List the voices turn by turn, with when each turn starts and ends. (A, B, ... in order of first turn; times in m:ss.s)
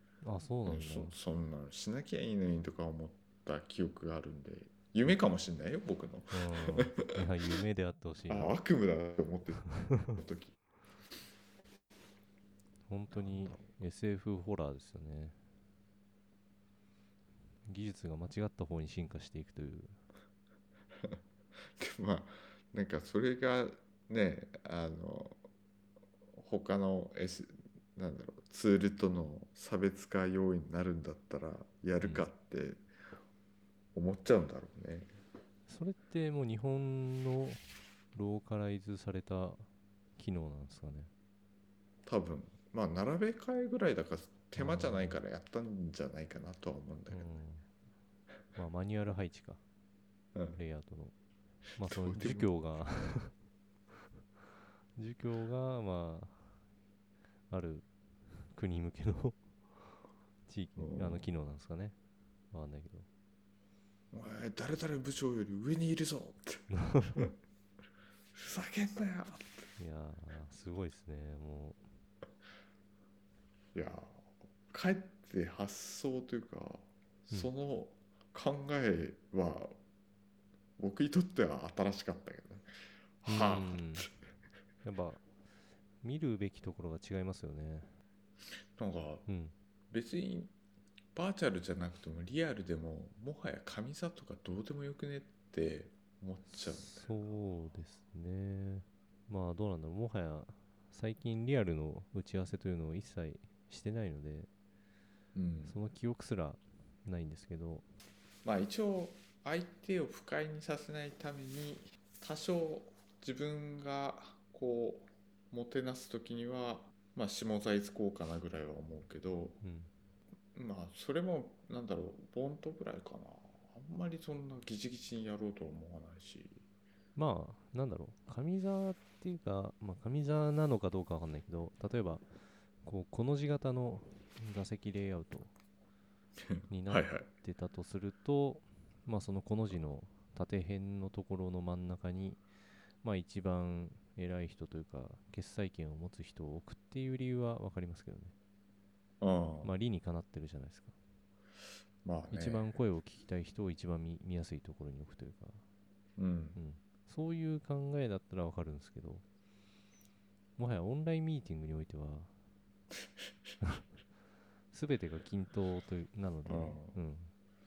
0:00.2-0:01.2 A
0:00.7-0:07.1 B
0:06.3-0:08.6 A
0:08.3-0:10.6 B
0:09.7-0:10.2 A
0:12.9-0:15.4 A
0:13.1-0:13.7 B
0:17.7-0:20.0 A
0:21.8-0:25.4 B
0:26.4-0:32.8 B
0:32.0-0:32.3 A
0:33.9-0:35.1 B
0:35.7-0:41.1 A
0:42.1-0:47.3 B
0:44.6-0:45.2 A
0:47.1-0:47.7 A
0:48.6-0:49.6 A
0:50.5-0:51.1 A
0:51.8-0:53.4 A
0:51.9-0:52.5 B
0:55.0-0:56.6 A
0:57.5-1:02.0 A
1:00.8-1:01.3 B
1:02.5-1:03.1 A
1:04.1-1:07.3 B
1:06.7-1:07.3 A
1:08.4-1:09.6 B
1:09.8-1:11.8 A
1:13.8-1:19.8 B
1:20.8-1:22.7 B
1:23.2-1:24.1 B
1:23.3-1:24.1 A
1:24.8-1:25.2 A
1:26.0-1:27.9 A
1:28.8-1:29.2 B
1:29.3-1:29.5 A
1:29.9-1:30.5 B
1:31.2-1:37.1 B
1:36.5-1:44.5 A
1:45.4-1:45.8 B
1:45.6-1:47.9 A
1:48.4-1:59.6 B
1:59.6-1:59.9 A
2:00.5-2:06.6 B
2:07.2-2:12.3 A
2:12.8-2:15.5 A
2:16.5-2:17.3 B
2:16.7-2:22.4 A
2:23.0-2:28.3 A
2:29.2-2:29.7 B
2:29.6-2:30.9 A
2:32.0-2:32.8 B
2:32.3-2:35.6 A
2:36.2-2:36.6 B
2:36.6-2:39.2 A
2:40.6-2:42.3 A
2:44.7-2:47.3 A
2:46.5-2:47.0 B